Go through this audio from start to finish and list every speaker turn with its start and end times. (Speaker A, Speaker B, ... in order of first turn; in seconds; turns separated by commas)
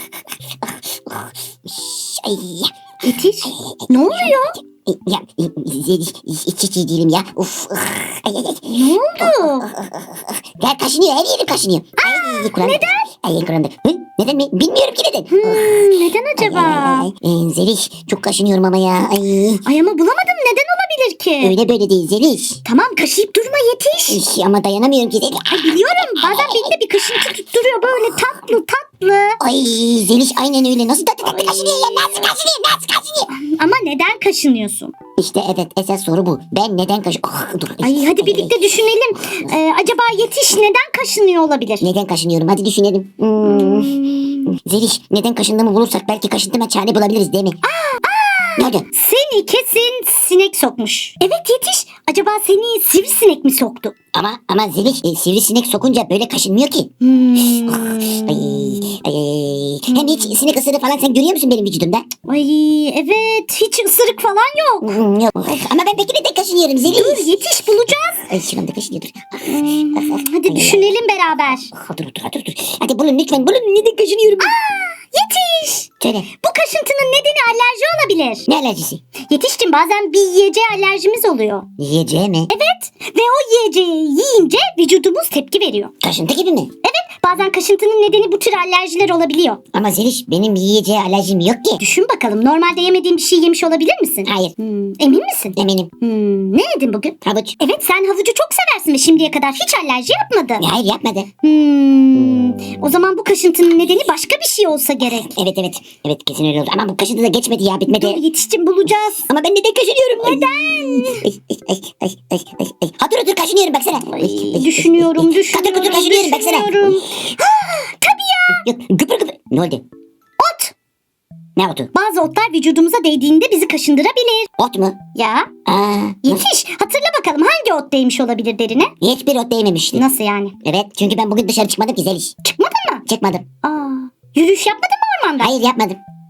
Speaker A: 0.6-2.7, Speaker B: 3.0-4.6, Speaker A: 3.5-19.6, Speaker B: 8.7-9.7, Speaker B: 12.0-13.1, Speaker B: 15.3-17.1, Speaker B: 19.6-21.6, Speaker A: 21.4-22.6, Speaker B: 22.6-24.2, Speaker A: 24.1-26.7, Speaker B: 25.5-29.4, Speaker A: 29.4-33.3, Speaker B: 31.2-32.3, Speaker B: 33.3-34.9, Speaker A: 35.2-38.6, Speaker B: 37.8-41.9, Speaker A: 41.8-47.6, Speaker B: 43.4-44.5, Speaker B: 47.6-53.9, Speaker A: 48.6-48.9, Speaker A: 54.1-62.1, Speaker B: 57.0-59.0, Speaker B: 59.9-60.4, Speaker B: 62.3-64.9, Speaker A: 64.8-67.3, Speaker B: 66.9-68.3, Speaker A: 68.3-70.9, Speaker B: 69.5-71.7, Speaker A: 71.7-74.6, Speaker B: 74.4-78.5, Speaker A: 76.0-76.3, Speaker A: 78.5-79.0, Speaker B: 79.2-81.7, Speaker A: 81.8-82.5, Speaker B: 82.5-85.9, Speaker A: 86.0-86.7, Speaker B: 86.8-89.6, Speaker A: 89.7-91.8, Speaker B: 91.8-100.7, Speaker A: 94.3-94.5, Speaker A: 95.6-95.9, Speaker A: 97.2-97.6, Speaker A: 100.6-101.3, Speaker B: 101.4-105.3, Speaker A: 105.1-108.2, Speaker B: 107.9-109.3, Speaker A: 109.3-117.0, Speaker B: 110.2-111.3, Speaker B: 114.1-118.6, Speaker A: 118.5-119.8, Speaker B: 120.4-120.7, Speaker A: 121.6-121.9, Speaker B: 121.9-124.5, Speaker A: 124.6-125.0, Speaker B: 125.2-125.5, Speaker A: 125.7-126.5, Speaker B: 126.2-128.9, Speaker A: 129.0-130.1, Speaker B: 129.9-130.6, Speaker A: 130.6-132.3, Speaker B: 132.4-133.0, Speaker A: 133.1-133.5, Speaker B: 133.6-135.6, Speaker A: 135.4-136.0